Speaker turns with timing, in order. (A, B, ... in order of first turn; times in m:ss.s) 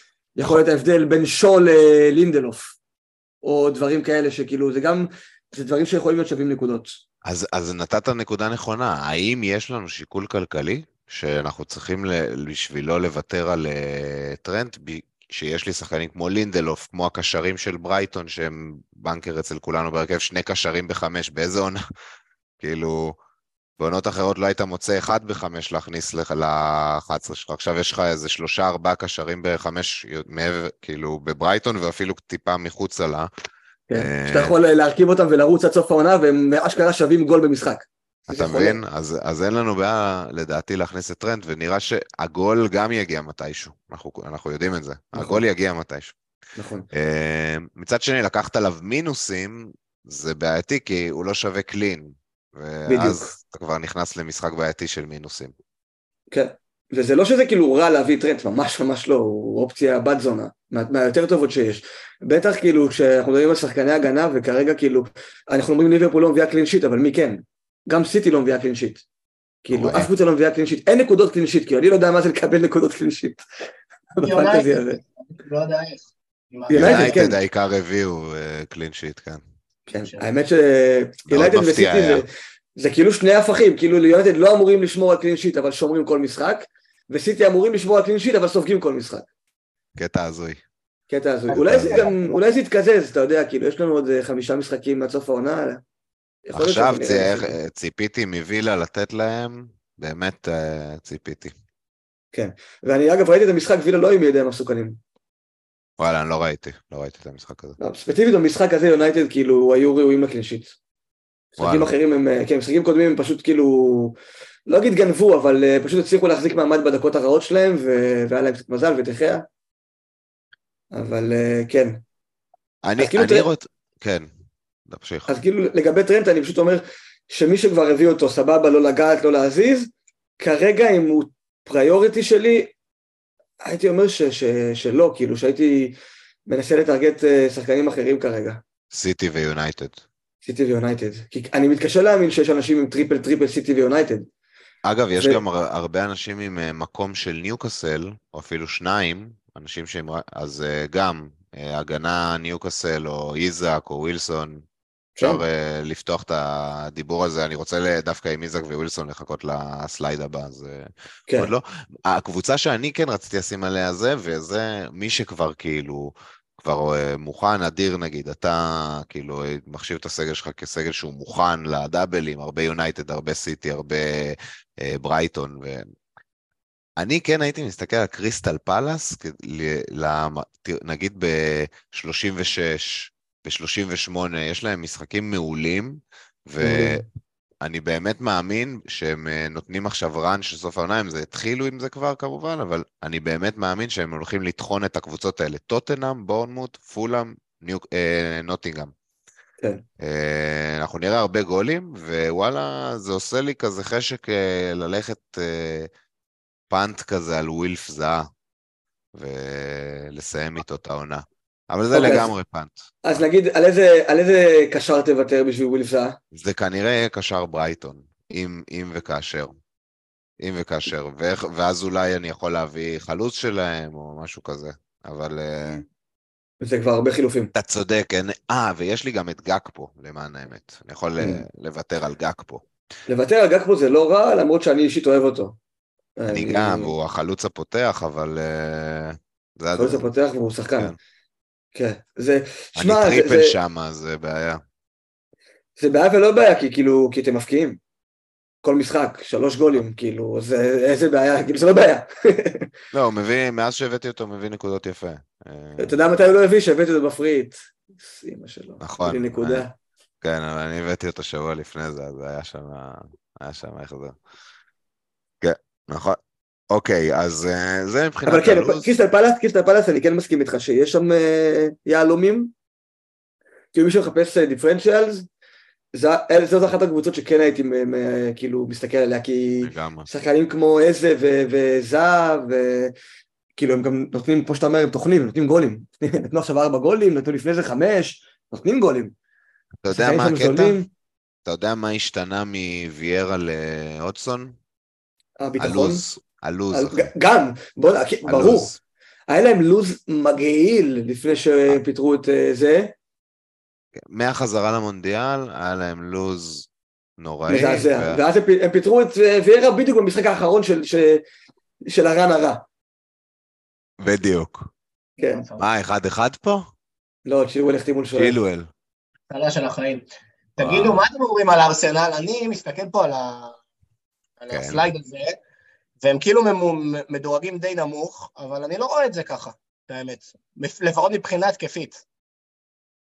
0:00.4-0:02.8 A
0:03.4-0:07.0 A
0:07.2-0:21.8 B
0:22.6-0:23.2 B
0:23.8-0:33.3 B
0:33.9-0:38.8 A
0:33.9-0:34.6 B
0:38.3-0:46.2 B
0:45.1-0:45.4 A
0:46.6-0:46.9 A
0:46.9-0:55.5 B
0:52.9-0:53.3 A
0:56.3-1:09.0 A
1:09.6-1:13.4 A
1:09.7-1:10.1 B
1:14.2-1:15.0 A
1:14.2-1:17.3 C
1:16.7-1:17.4 A
1:16.7-1:19.4 B
1:19.9-1:29.3 A
1:20.0-1:20.3 C
1:21.3-1:22.2 B
1:30.0-1:30.6 B
1:31.1-1:35.8 A
1:31.5-1:32.1 B
1:36.5-1:37.6 A
1:36.6-1:41.6 B
1:42.3-1:45.0 A
1:46.0-1:47.8 B
1:47.8-1:50.8 A
1:51.6-1:54.2 A
1:51.6-1:51.9 B
1:54.7-1:59.4 A
2:00.9-2:02.0 A
2:02.8-2:04.3 B
2:03.0-2:03.5 A
2:04.9-2:05.3 B
2:05.3-2:12.7 A
2:13.6-2:16.0 A
2:16.5-2:18.6 A
2:18.9-2:20.0 B
2:20.4-2:24.3 A
2:24.8-2:34.6 B
2:25.2-2:25.4 A
2:35.2-2:35.4 A
2:35.2-2:55.8 B
2:57.0-3:07.0 B
3:06.6-3:07.1 A
3:07.6-3:18.9 B
3:20.0-3:25.9 B
3:26.7-3:28.3 B
3:29.1-3:32.9 B
3:31.9-3:32.3 A
3:33.0-3:36.2 A
3:36.3-3:39.5 B
3:40.4-3:45.8 B
3:46.6-3:47.5 A
3:47.6-3:52.6 B
3:51.2-3:51.4 A
3:53.1-3:55.6 A
3:56.2-3:56.9 A
3:56.3-4:00.1 B
3:59.8-4:00.9 A
4:01.7-4:03.6 A
4:02.8-4:04.6 B
4:05.8-4:07.8 A
4:08.6-4:12.7 A
4:12.9-4:16.0 B
4:15.8-4:19.7 A
4:18.8-4:19.7 B
4:20.2-4:24.2 B
4:25.4-4:26.2 B
4:26.7-4:28.9 B
4:28.3-4:32.5 A
4:33.7-4:35.3 A
4:35.9-4:42.9 A
4:39.6-4:40.1 B
4:43.6-4:49.1 A
4:49.8-4:50.8 B
4:49.9-4:50.9 A
4:51.4-4:54.6 B
4:55.4-4:56.0 A
4:55.6-4:57.1 B
4:56.7-4:58.7 A
4:58.3-4:58.8 B
4:59.3-5:02.9 A
5:04.0-5:08.2 B
5:07.5-5:11.2 A
5:11.9-5:12.6 A
5:14.0-5:14.7 B
5:15.2-5:15.4 A
5:15.2-5:15.6 C
5:15.6-5:16.6 B
5:17.3-5:18.4 A
5:18.2-5:18.7 B
5:19.3-5:20.0 C
5:20.6-5:23.6 C
5:20.6-5:21.1 B
5:24.4-5:25.4 C
5:24.5-5:24.8 B
5:26.0-5:32.0 C